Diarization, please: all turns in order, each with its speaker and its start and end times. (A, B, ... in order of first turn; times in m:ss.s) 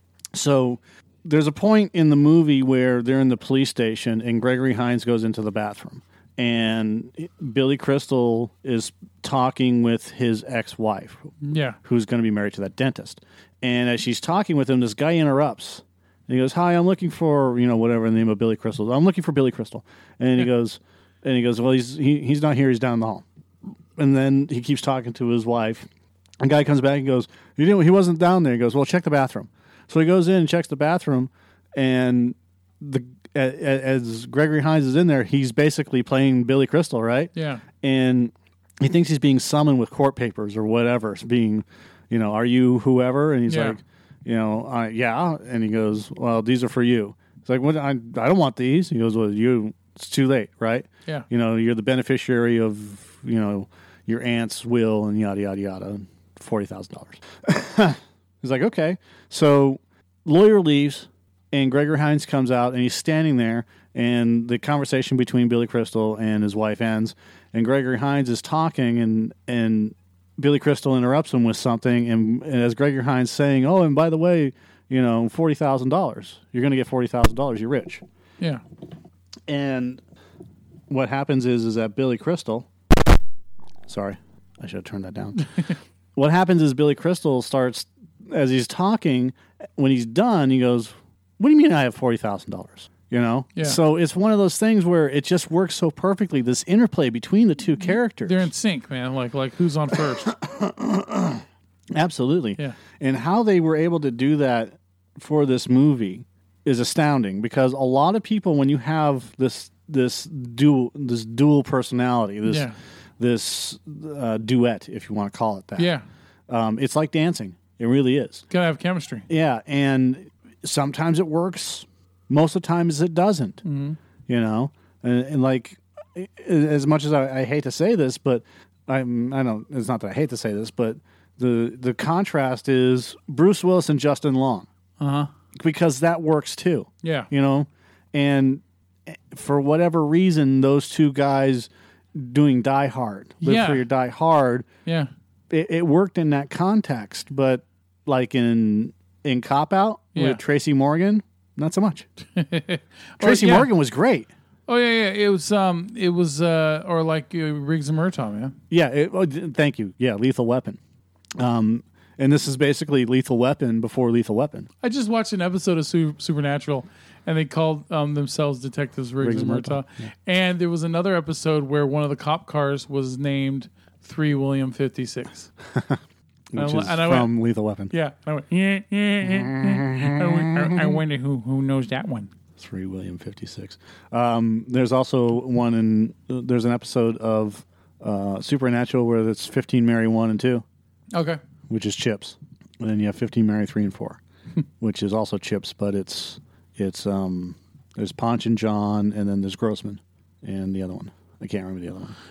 0:00.3-0:23.2 A
0:11.4-0:11.8 B
0:24.0-0:25.9 A
0:26.4-1:18.0 A
0:37.4-0:37.6 B
0:43.5-0:43.8 B
1:19.5-1:20.0 A
1:20.9-1:22.7 A
1:23.9-1:38.5 A
1:38.2-1:40.3 B
1:39.9-1:56.0 A
1:52.5-1:52.8 B
1:55.8-1:56.0 B
1:56.5-1:58.4 A
1:58.5-1:59.3 B
1:59.3-2:03.6 A
2:03.6-2:04.0 B
2:04.3-2:14.7 A
2:15.0-2:15.3 B
2:15.6-2:24.7 A
2:17.0-2:17.3 B
2:23.4-2:23.8 B
2:25.5-2:32.1 A
2:30.2-2:30.4 B
2:32.4-2:33.7 B
2:33.2-2:34.3 A
2:34.7-2:38.6 B
2:38.7-2:40.8 A
2:41.4-2:44.7 A
2:44.8-2:55.5 B
2:49.2-2:50.1 A
2:55.7-2:56.0 A
2:56.5-2:57.9 A
2:56.6-2:57.3 B
2:57.9-3:02.3 B
2:59.2-3:01.0 A
3:02.6-3:10.6 A
3:11.1-3:11.4 B
3:11.7-3:14.2 A
3:14.8-3:22.2 A